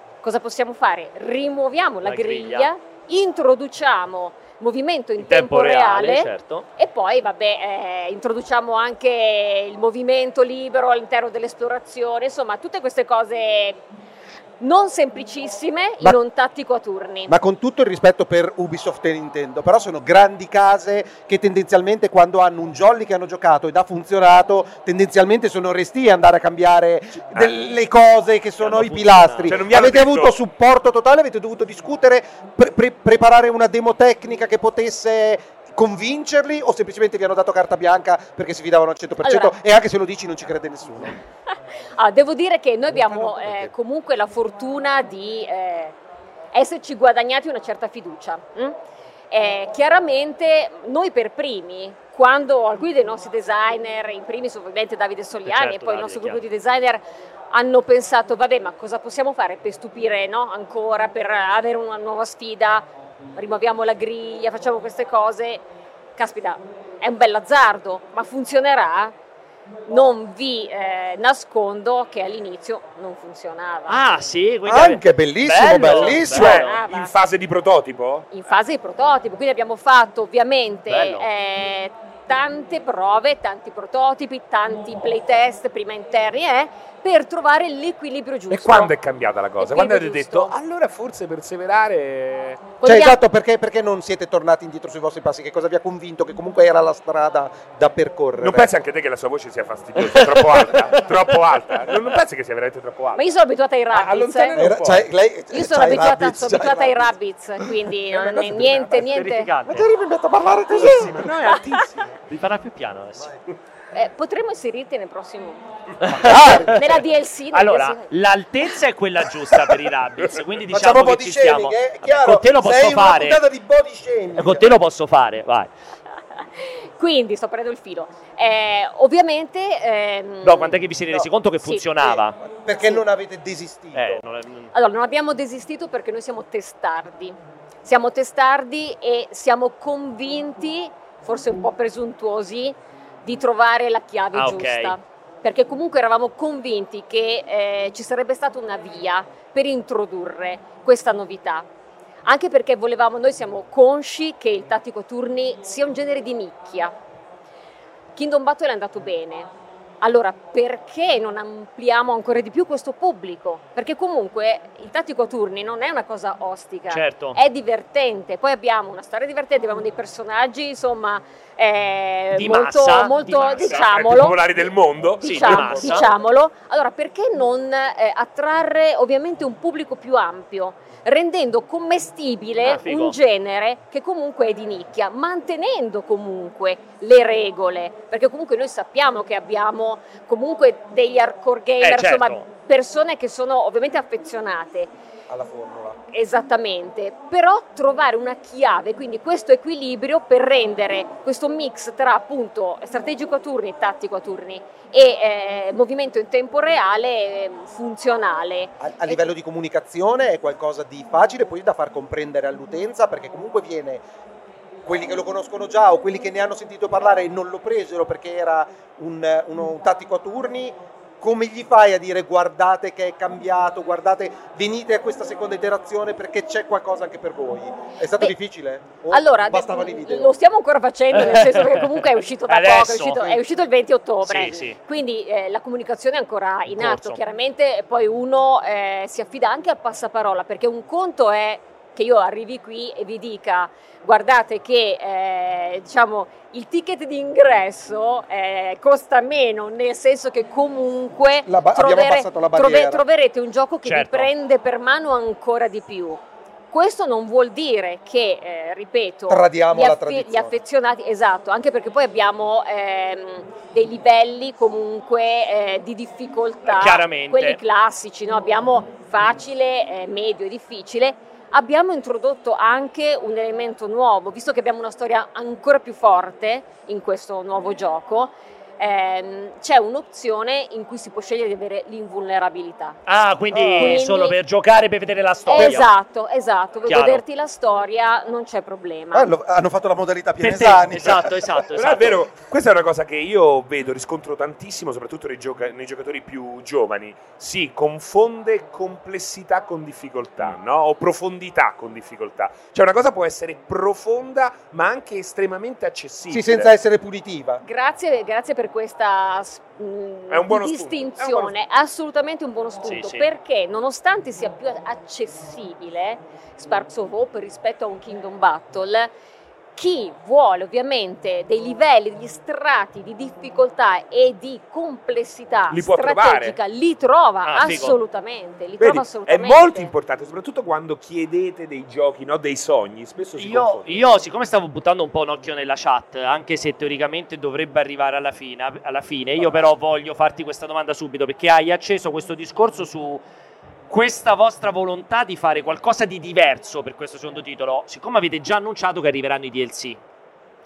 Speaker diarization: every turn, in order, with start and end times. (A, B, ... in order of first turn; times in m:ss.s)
0:00.2-0:13.8 A
0:02.0-0:02.7 B
0:05.2-0:06.7 B
0:14.6-0:17.3 A
0:17.3-0:41.2 C
0:28.6-0:29.6 B
0:29.4-0:30.4 D
0:39.2-0:39.5 A
0:42.0-0:46.0 A
0:42.9-0:43.7 C
0:46.5-0:48.7 A
0:49.3-1:05.6 A
0:55.4-0:56.4 B
1:06.2-1:09.1 A
1:09.9-1:14.0 A
1:13.9-1:16.7 B
1:14.6-1:16.6 C
1:15.8-1:18.3 D
1:16.2-1:17.1 A
1:18.3-1:28.9 A
1:20.9-1:21.3 B
1:28.5-1:32.7 D
1:29.6-1:30.5 A
1:32.8-1:33.2 A
1:32.8-1:38.7 C
1:38.4-1:43.2 D
1:40.0-1:40.9 B
1:43.1-1:44.7 A
1:43.9-1:45.1 D
1:44.6-1:47.1 C
1:45.5-1:49.5 A
1:48.2-1:49.9 B
1:49.6-1:51.3 C
1:50.7-1:52.2 D
1:51.5-1:51.8 A
1:52.3-1:53.4 B
1:53.9-1:55.6 A
1:56.0-1:57.0 B
1:56.0-1:56.8 C
1:56.3-1:58.1 A
1:57.5-2:03.4 B
2:00.7-2:04.8 C
2:04.4-2:05.7 B
2:06.6-2:10.8 A
2:10.4-2:12.4 B
2:11.6-2:13.0 A
2:12.6-2:14.2 C
2:13.9-2:14.7 B
2:14.7-2:31.6 A
2:24.3-2:25.0 B
2:32.2-2:36.9 A
2:38.2-2:39.5 A
2:40.0-2:54.7 A
2:46.9-2:47.4 B
2:52.3-2:53.9 B
2:53.4-2:55.6 D
2:55.2-3:14.9 A
2:55.2-2:56.1 B
2:55.4-2:56.1 C
3:02.6-3:03.2 B
3:11.8-3:12.4 B
3:15.3-3:16.0 C
3:16.1-3:29.3 A
3:28.8-3:34.0 C
3:34.8-3:50.4 C
3:49.1-4:16.2 A
3:51.1-3:53.4 B
3:54.2-3:54.8 B
3:56.7-3:57.2 B
4:11.4-4:13.0 C
4:13.8-4:14.3 B
4:16.7-4:43.0 A
4:19.3-4:20.5 C
4:26.7-4:27.6 B
4:43.0-4:45.9 B
4:43.5-4:44.0 C
4:43.8-4:44.4 A
4:45.5-4:49.3 A
4:46.9-4:47.2 B
4:49.1-4:51.6 C
4:50.4-4:52.2 B
4:51.7-5:06.7 D
5:06.3-5:07.6 C
5:07.6-5:19.1 A
5:10.3-5:11.5 D
5:12.8-5:13.3 B
5:19.8-5:29.9 A
5:25.7-5:26.6 D
5:27.4-5:28.0 B
5:28.8-5:34.0 D
5:33.4-5:43.2 B
5:43.9-5:50.0 B